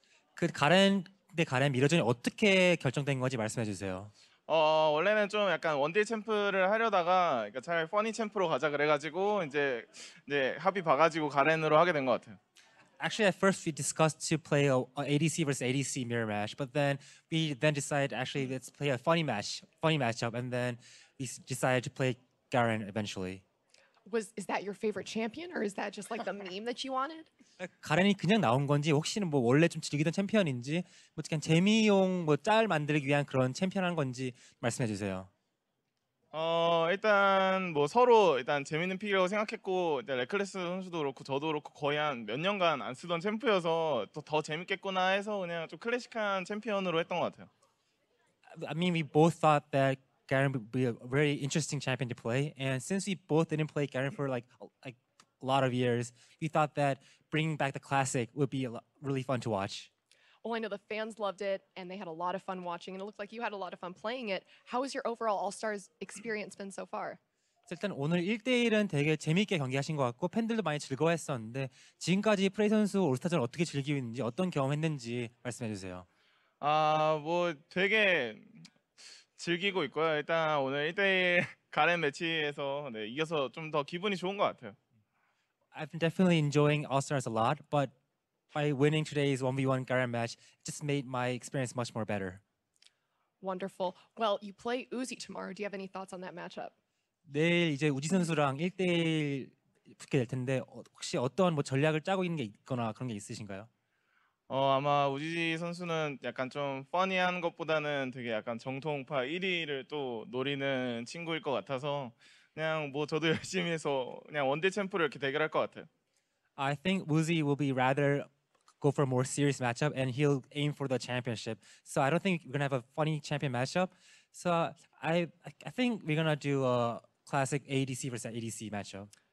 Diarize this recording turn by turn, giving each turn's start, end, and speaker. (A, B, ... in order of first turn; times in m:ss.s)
0:00.4-0:04.1 A
0:04.5-0:12.4 B
0:13.0-0:23.4 A
0:24.1-0:27.3 C
0:27.6-0:35.3 A
0:36.3-0:47.5 B
0:48.6-0:59.9 A
1:00.4-1:07.2 C
1:07.7-1:16.1 A
1:16.6-1:18.6 B
1:19.4-1:24.8 B
1:25.7-1:27.9 A
1:28.5-1:32.4 A
1:33.4-1:36.7 C
1:37.2-1:43.7 A
1:44.5-1:55.9 B
1:56.6-1:58.3 A
1:58.8-2:09.1 A